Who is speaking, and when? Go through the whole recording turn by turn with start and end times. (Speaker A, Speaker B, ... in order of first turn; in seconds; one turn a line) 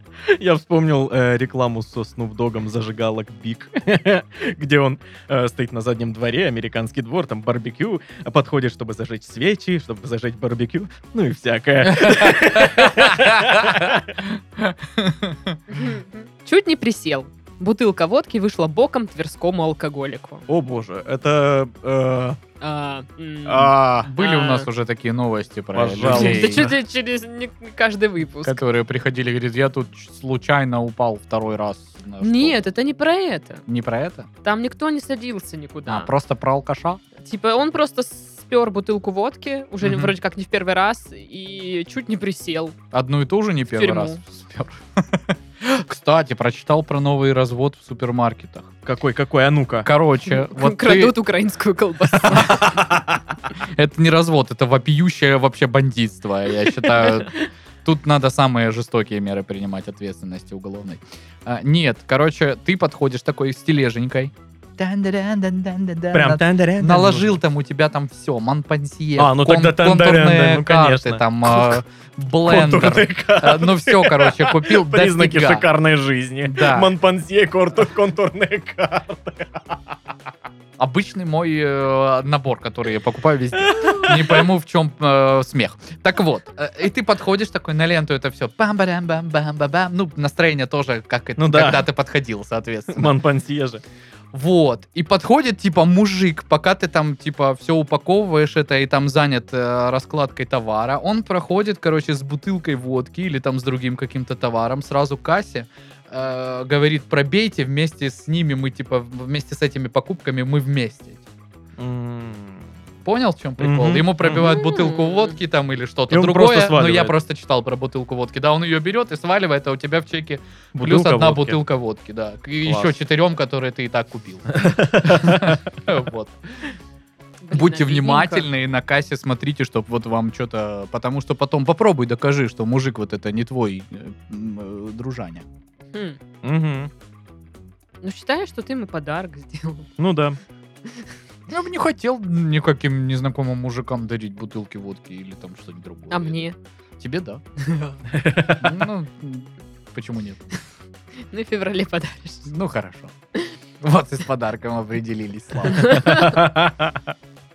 Speaker A: 0.2-14.1
Speaker B: 11.9-15.6
Speaker C: 15.7-20.4
Speaker A: 20.5-22.4
Speaker C: 22.6-24.7
Speaker A: 23.5-23.8
Speaker B: 23.5-26.7
Speaker A: 25.7-26.7
Speaker C: 26.0-28.6
Speaker B: 28.4-32.6
Speaker C: 32.2-33.6
Speaker B: 33.7-34.3
Speaker C: 34.4-36.1
Speaker B: 35.9-37.0
Speaker C: 37.2-42.8
Speaker B: 42.9-48.7
Speaker C: 43.7-44.2
Speaker A: 48.9-49.9
Speaker B: 49.8-51.2
Speaker C: 50.2-52.8
Speaker B: 52.1-75.7
Speaker A: 66.1-67.4
Speaker A: 69.2-71.8
Speaker A: 72.5-79.8
Speaker B: 76.5-76.9
Speaker B: 80.8-93.1
Speaker A: 83.7-84.5
Speaker A: 91.4-91.8
Speaker A: 92.9-93.8
Speaker B: 94.3-111.2
Speaker A: 111.8-112.7
Speaker B: 113.1-126.7
Speaker A: 113.6-114.6
Speaker C: 114.4-115.4
Speaker A: 116.1-117.2
Speaker A: 120.8-121.6
Speaker A: 122.7-122.9
Speaker A: 124.5-125.6
Speaker C: 127.4-128.5
Speaker B: 127.5-135.5
Speaker C: 135.9-136.2
Speaker A: 136.4-136.9
Speaker C: 138.0-139.9
Speaker A: 140.0-140.4
Speaker B: 141.5-146.4
Speaker C: 146.1-146.6
Speaker B: 147.0-147.4
Speaker C: 147.6-148.0
Speaker A: 148.1-148.7
Speaker B: 148.5-150.4
Speaker C: 151.3-152.5
Speaker B: 152.5-153.1
Speaker B: 153.8-156.2
Speaker C: 155.7-156.4
Speaker A: 155.8-157.0